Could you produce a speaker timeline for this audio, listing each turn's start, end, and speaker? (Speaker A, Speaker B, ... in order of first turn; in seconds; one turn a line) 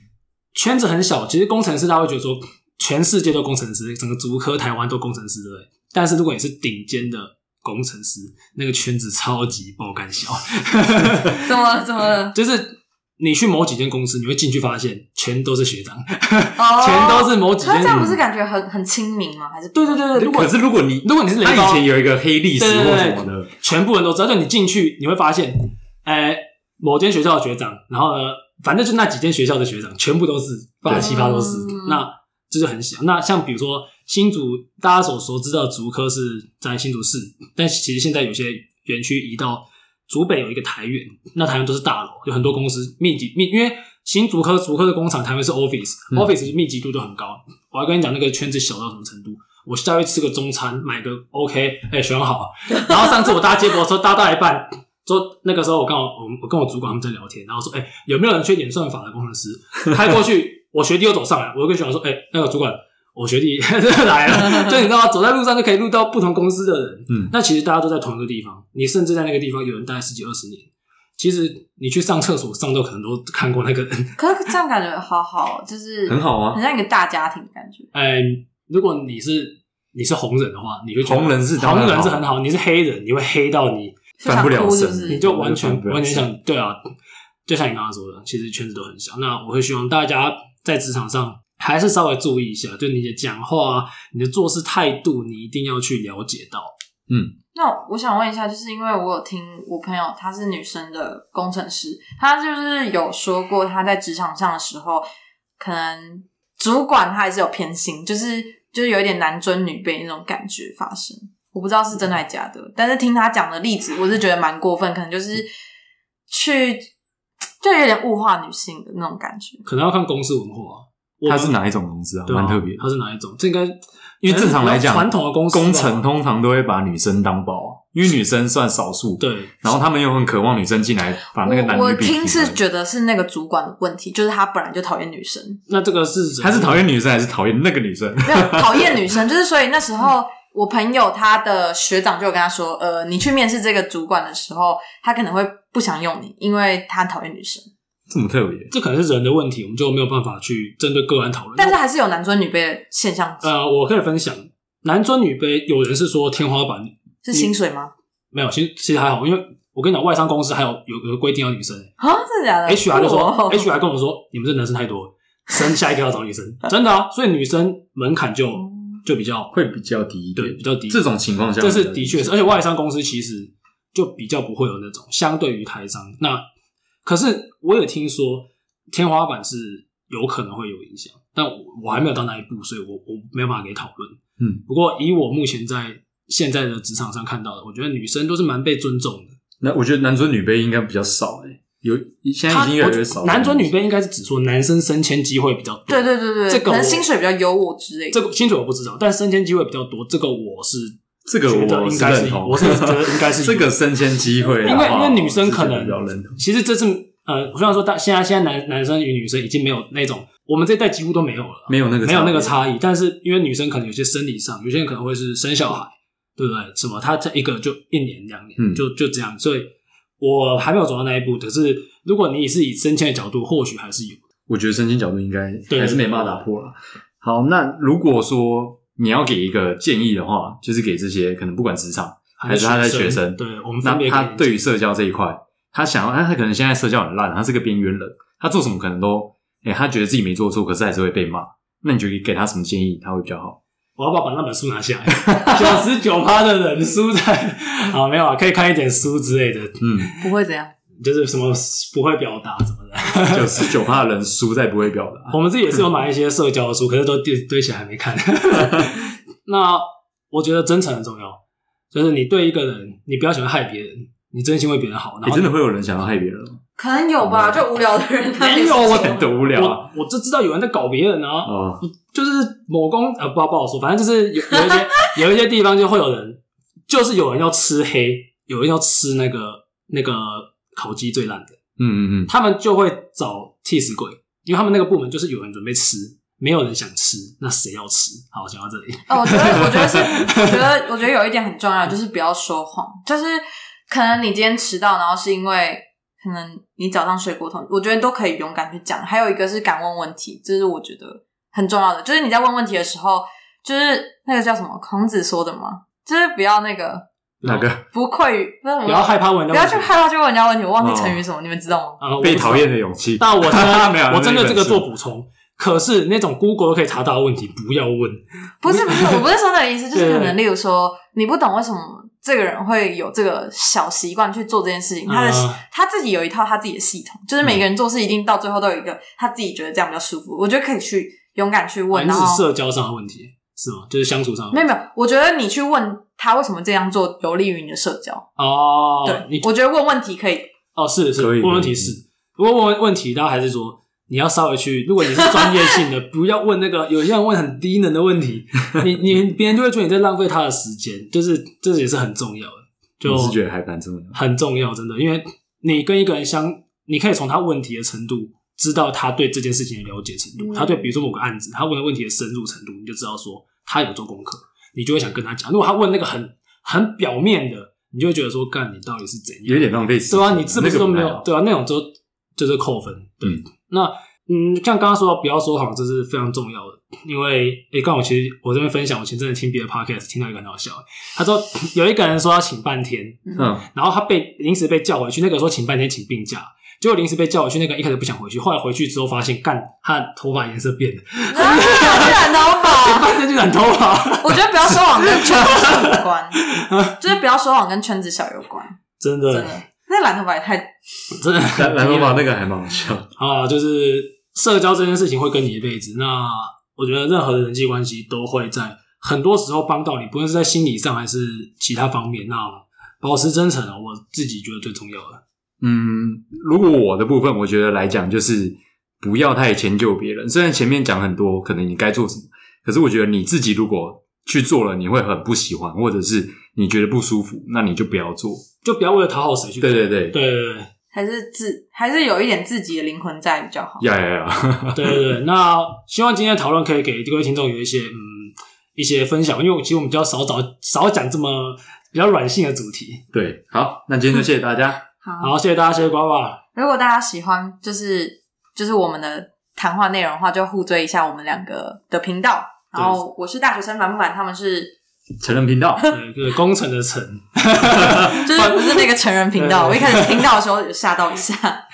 Speaker A: 0.5-11.5
Speaker B: 11.3-12.3
Speaker A: 12.3-18.1
Speaker B: 16.6-20.1
Speaker C: 17.8-18.1
Speaker A: 19.7-21.8
Speaker C: 20.1-23.5
Speaker A: 22.6-74.1
Speaker B: 30.9-32.0
Speaker B: 74.2-77.9
Speaker C: 76.1-76.6
Speaker A: 77.9-84.0
Speaker C: 81.0-82.3
Speaker B: 84.2-85.2
Speaker C: 84.2-86.3
Speaker A: 85.1-86.8
Speaker A: 87.5-96.7
Speaker C: 97.1-97.3
Speaker B: 97.5-105.0
Speaker B: 105.6-115.5
Speaker B: 116.3-116.9
Speaker B: 117.6-119.6
Speaker A: 119.7-121.6
Speaker C: 121.3-122.8
Speaker A: 122.2-126.0
Speaker C: 124.2-132.6
Speaker A: 129.2-129.5
Speaker B: 131.3-135.6
Speaker A: 135.7-136.8
Speaker C: 136.4-139.0
Speaker B: 138.2-147.7
Speaker C: 148.1-148.7
Speaker A: 148.7-151.8
Speaker B: 151.6-153.5
Speaker A: 153.4-157.5
Speaker B: 157.2-157.9
Speaker A: 158.3-161.9
Speaker B: 162.0-163.7
Speaker A: 162.7-169.5
Speaker B: 168.6-169.0
Speaker C: 169.5-172.4
Speaker A: 170.3-171.0
Speaker A: 171.6-176.4
Speaker A: 177.0-189.4
Speaker C: 189.6-193.7
Speaker A: 192.5-197.1
Speaker B: 195.9-198.2
Speaker A: 198.1-203.8
Speaker C: 201.2-206.4
Speaker A: 204.6-224.2
Speaker C: 211.7-212.5
Speaker C: 218.6-218.8
Speaker C: 224.5-243.6
Speaker A: 225.7-226.4
Speaker A: 232.4-234.6
Speaker A: 244.0-250.1
Speaker C: 245.2-245.7
Speaker C: 249.8-250.1
Speaker B: 250.2-250.7
Speaker A: 251.0-253.7
Speaker C: 253.2-255.4
Speaker A: 255.3-261.4
Speaker A: 261.9-265.5
Speaker C: 265.2-266.6
Speaker B: 266.8-269.2
Speaker C: 267.2-267.6
Speaker A: 268.4-281.6
Speaker C: 268.9-269.9
Speaker C: 271.4-271.8
Speaker C: 281.8-282.3
Speaker A: 282.3-290.9
Speaker B: 289.1-307.1
Speaker A: 307.4-307.7
Speaker C: 307.4-307.8
Speaker B: 307.8-312.0
Speaker A: 308.8-309.9
Speaker C: 310.8-311.2
Speaker A: 312.0-319.3
Speaker C: 312.2-314.9
Speaker B: 318.6-332.4
Speaker A: 319.9-320.4
Speaker A: 325.1-325.6
Speaker A: 331.9-334.7
Speaker B: 334.5-338.3
Speaker A: 338.4-339.5
Speaker B: 339.0-340.5
Speaker A: 340.7-353.4
Speaker C: 341.1-341.9
Speaker C: 353.0-354.2
Speaker A: 354.1-397.1
Speaker B: 360.4-360.9
Speaker C: 369.4-371.2
Speaker C: 383.4-383.6
Speaker B: 391.3-393.2
Speaker B: 394.2-398.8
Speaker A: 399.0-399.6
Speaker B: 399.3-400.7
Speaker A: 401.1-402.2
Speaker C: 401.5-403.1
Speaker A: 403.1-415.2
Speaker C: 415.6-428.4
Speaker A: 428.6-430.7
Speaker C: 429.6-430.1
Speaker B: 430.9-433.8
Speaker C: 433.8-435.0
Speaker A: 434.7-443.0
Speaker C: 443.1-444.8
Speaker B: 445.0-445.3
Speaker A: 445.2-446.4
Speaker B: 446.5-454.8
Speaker C: 455.2-455.9
Speaker A: 455.9-460.3
Speaker B: 458.1-461.6